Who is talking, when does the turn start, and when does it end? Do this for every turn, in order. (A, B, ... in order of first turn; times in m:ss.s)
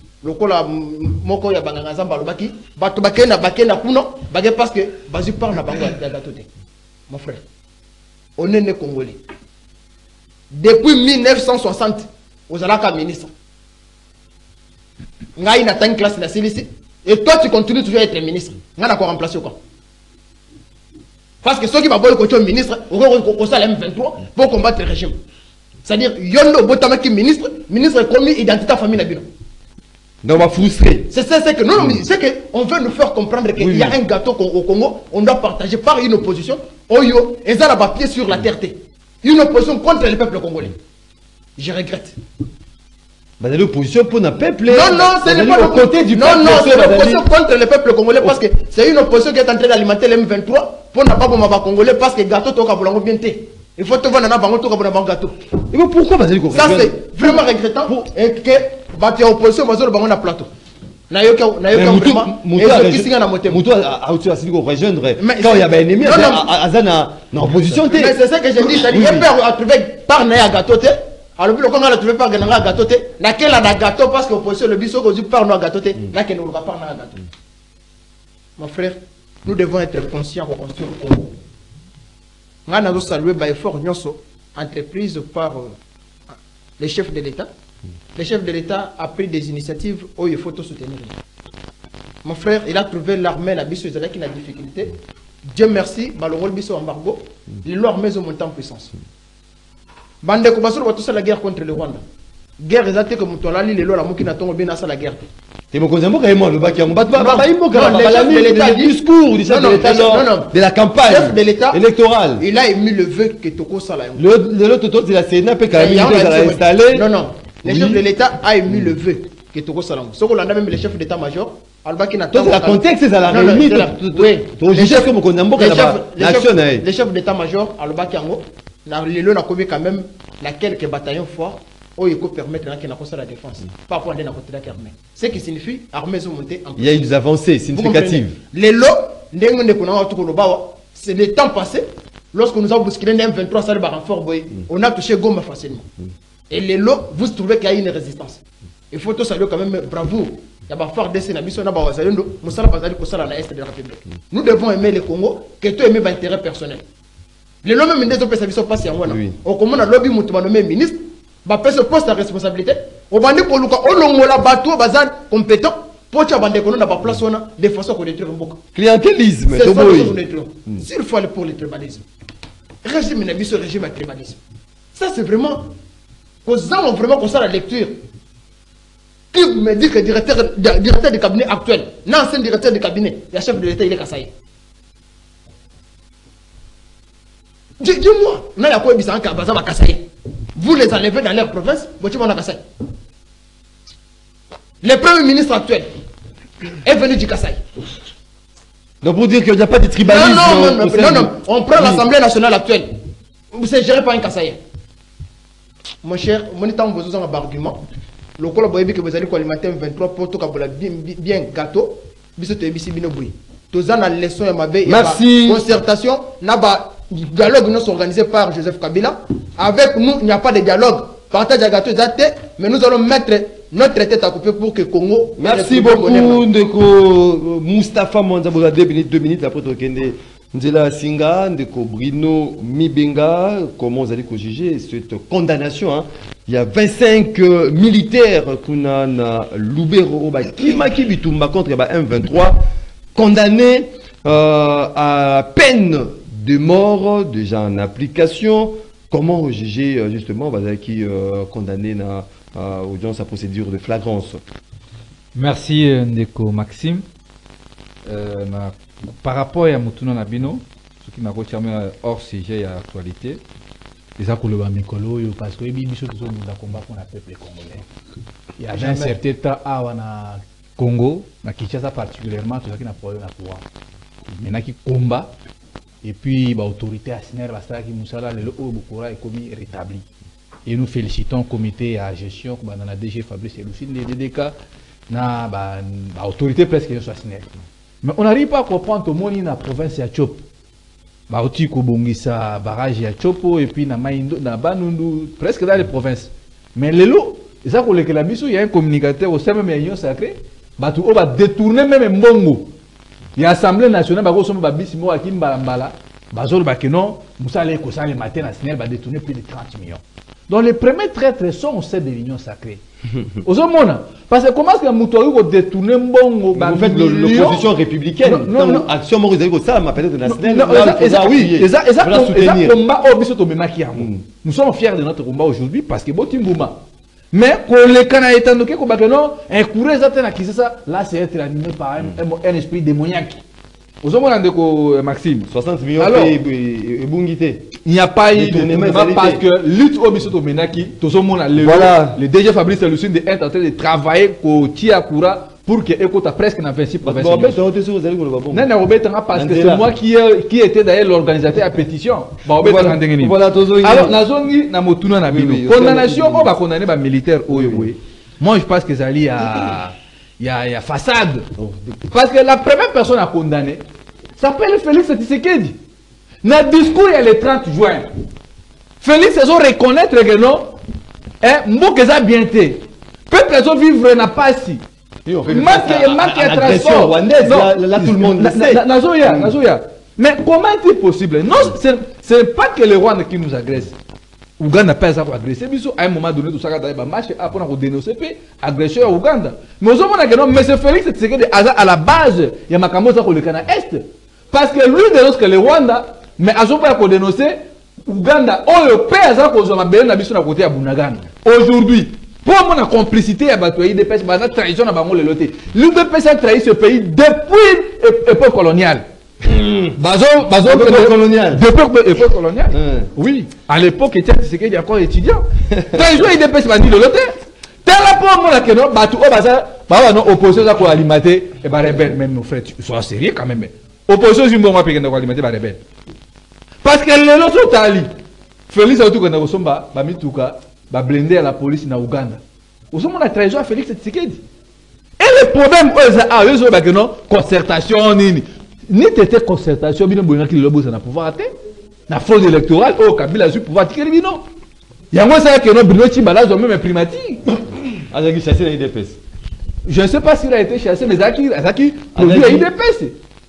0:00.2-0:06.5 A
0:07.1-0:07.4 A
0:08.4-0:09.2 A
0:10.5-0:13.3 A
0:15.4-0:19.6 A
0:21.4-0:25.2 A
0:25.8-0:29.3 A
0:30.2-0:31.1 B
0:31.1-0:40.8 A
0:33.6-0:34.0 B
0:41.6-0:42.2 A
0:43.4-0:47.2 B
0:44.7-0:55.4 A
0:55.7-0:58.1 B
0:56.5-1:00.5 A
1:01.1-1:03.6 A
1:01.7-1:09.3 B
1:05.2-1:06.5 A
1:07.7-1:17.2 A
1:18.6-1:21.3 A
1:22.7-1:25.8 A
1:26.3-1:27.5 A
1:28.2-1:31.2 A
1:32.2-1:35.0 A
1:35.5-1:38.9 A
1:40.2-1:42.0 A
1:42.6-1:45.2 A
1:45.7-1:52.4 B
1:47.1-1:51.8 A
1:52.4-1:54.2 A
1:54.2-1:57.1 B
1:55.7-2:17.1 A
1:57.6-1:58.0 B
2:02.3-2:06.8 B
2:16.8-2:18.4 B
2:17.7-2:25.9 A
2:26.5-2:36.8 A
2:37.6-2:48.6 A
2:39.1-2:39.4 B
2:48.7-2:50.8 B
2:49.5-2:52.1 A
2:52.8-2:54.4 A
2:54.9-2:55.8 A
2:56.4-2:58.0 A
2:59.3-3:04.3 A
3:07.8-3:12.6 A
3:14.8-3:15.9 A
3:16.8-3:17.6 A
3:19.0-3:22.1 B
3:20.0-3:23.0 A
3:23.5-3:24.6 A
3:26.0-3:27.8 A
3:28.4-3:46.4 A
3:34.9-3:35.7 B
3:45.4-4:02.6 B
4:03.2-4:14.4 B
4:15.4-4:17.0 C
4:18.1-4:23.4 C
4:24.2-4:27.8 C
4:28.6-4:33.6 C
4:28.8-4:29.1 B
4:34.3-4:35.3 C
4:36.0-4:40.0 C
4:40.7-4:44.6 C
4:45.1-4:47.5 C
4:48.0-4:50.4 C
4:51.3-5:02.7 C
5:03.4-5:12.8 C
5:13.4-5:17.7 C
5:16.5-5:22.8 B
5:18.2-5:18.9 C
5:20.3-5:33.4 C
5:24.0-5:24.2 B
5:34.0-5:36.4 C
5:35.5-5:37.7 B
5:37.8-5:47.6 C
5:38.3-5:39.4 B
5:41.6-5:42.2 B
5:47.0-5:48.7 B
5:48.5-6:01.5 C
5:49.3-5:49.9 B
5:52.6-5:54.2 B
5:55.3-5:56.5 B
5:57.5-5:57.9 B
6:01.6-6:02.1 B
6:02.1-6:03.8 C
6:04.4-6:05.8 C
6:06.4-6:08.1 C
6:09.0-6:10.8 C
6:11.4-6:14.8 C
6:15.3-6:19.5 B
6:15.5-6:23.9 C
6:24.6-6:49.1 C
6:49.4-6:50.0 B
6:50.0-7:05.8 C
6:50.6-6:51.6 B
6:52.7-6:53.1 B
6:55.7-6:56.0 B
7:06.8-7:08.1 C
7:08.7-7:14.4 C
7:15.2-7:21.5 C
7:22.1-7:24.4 C
7:25.1-7:27.5 C
7:28.0-7:29.2 B
7:29.8-7:33.2 C
7:32.2-7:32.7 B